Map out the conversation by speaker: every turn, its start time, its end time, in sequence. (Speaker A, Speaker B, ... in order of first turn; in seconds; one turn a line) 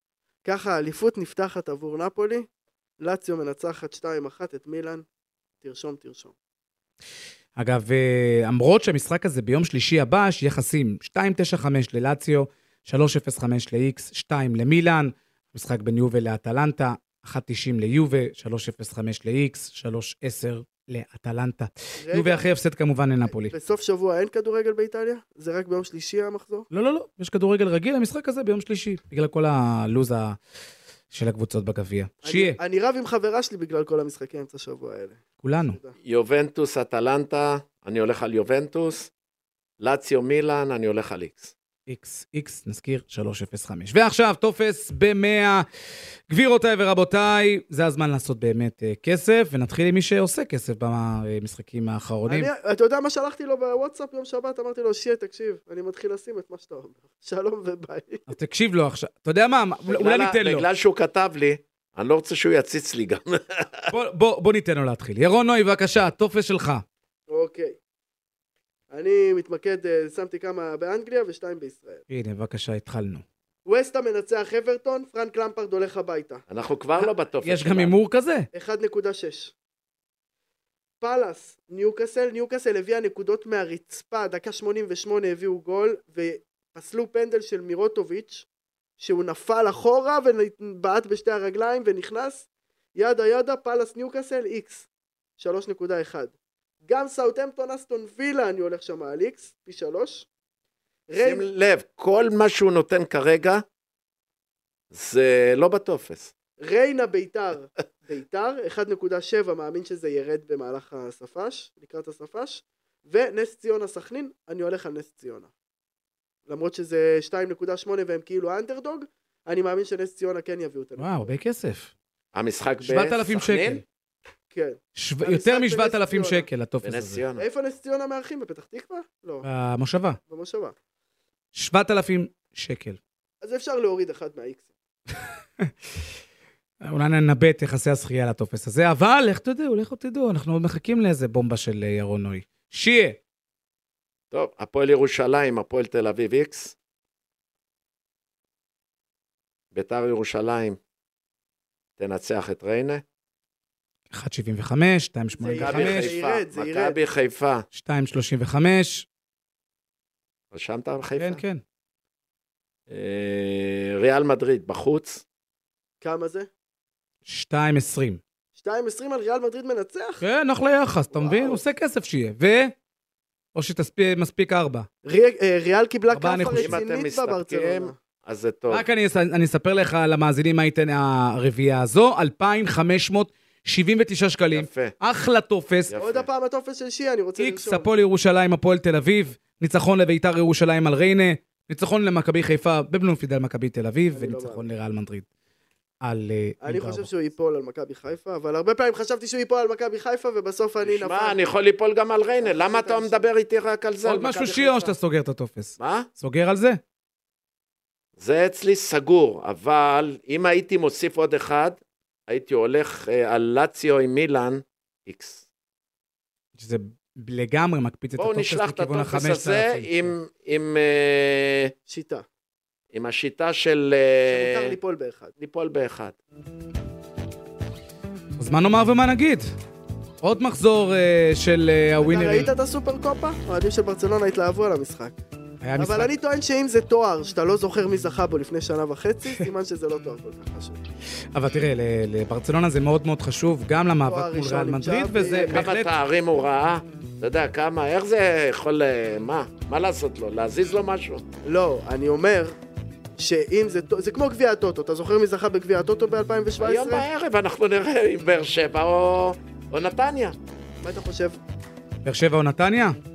Speaker A: 0.4-2.5
Speaker A: 3.0-5.0
Speaker A: 5.6-6.3
Speaker B: 7.5-23.5
Speaker A: 22.0-22.5
Speaker A: 23.3-26.7
Speaker B: 26.7-30.4
Speaker B: 31.1-32.6
Speaker A: 32.2-35.9
Speaker B: 35.4-35.8
Speaker C: 36.0-39.1
Speaker C: 39.8-41.5
Speaker B: 41.9-45.6
Speaker B: 46.3-52.5
Speaker A: 52.2-58.2
Speaker B: 58.3-60.7
Speaker C: 59.9-63.9
Speaker B: 63.9-66.8
Speaker A: 67.3-67.8
Speaker A: 68.9-72.0
Speaker B: 72.1-73.2
Speaker A: 73.7-76.4
Speaker C: 76.5-77.9
Speaker B: 77.0-78.5
Speaker A: 78.5-79.5
Speaker A: 81.0-88.5
Speaker A: 89.0-94.8
Speaker A: 95.4-96.3
Speaker A: 96.8-100.3
Speaker A: 101.1-101.5
Speaker C: 101.2-103.6
Speaker C: 104.9-106.3
Speaker A: 106.6-115.5
Speaker A: 116.5-121.3
Speaker B: 121.0-121.9
Speaker C: 122.3-123.8
Speaker B: 122.8-123.8
Speaker A: 124.5-126.5
Speaker B: 124.9-127.2
Speaker C: 126.8-127.4
Speaker A: 127.3-129.4
Speaker B: 129.4-130.2
Speaker A: 130.3-130.7
Speaker B: 131.5-133.0
Speaker A: 133.4-134.6
Speaker B: 135.3-135.7
Speaker B: 136.8-143.2
Speaker C: 144.3-146.7
Speaker C: 149.7-150.8
Speaker C: 152.0-153.0
Speaker B: 154.1-156.1
Speaker A: 155.3-157.0
Speaker C: 155.6-157.7
Speaker B: 157.7-159.1
Speaker C: 160.5-161.4
Speaker B: 161.2-161.6
Speaker C: 162.9-165.2
Speaker A: 166.0-166.5
Speaker B: 167.2-168.2
Speaker A: 168.6-170.2
Speaker B: 170.2-172.7
Speaker A: 171.1-171.6
Speaker B: 173.5-174.9
Speaker A: 175.0-177.9
Speaker B: 176.1-176.8
Speaker C: 176.5-178.8
Speaker B: 178.7-185.9
Speaker C: 184.5-184.9
Speaker C: 185.9-186.3
Speaker A: 186.0-187.9
Speaker B: 187.4-195.2
Speaker A: 194.1-194.7
Speaker B: 196.0-197.1
Speaker A: 196.6-201.4
Speaker C: 200.8-204.4
Speaker A: 202.4-203.3
Speaker B: 204.0-206.8
Speaker A: 204.3-204.9
Speaker C: 205.8-206.1
Speaker C: 208.2-215.4
Speaker B: 216.6-220.1
Speaker C: 218.2-221.7
Speaker A: 221.9-222.2
Speaker C: 222.9-224.8
Speaker A: 224.3-225.3
Speaker C: 225.4-226.2
Speaker B: 228.4-229.5
Speaker B: 230.2-232.5
Speaker A: 232.0-235.1
Speaker B: 235.6-236.1
Speaker A: 235.8-240.8
Speaker B: 241.3-245.9
Speaker A: 244.0-245.6
Speaker C: 245.5-251.2
Speaker A: 251.4-252.6
Speaker A: 253.2-257.0
Speaker C: 256.6-260.4
Speaker A: 260.8-261.4
Speaker B: 262.0-263.0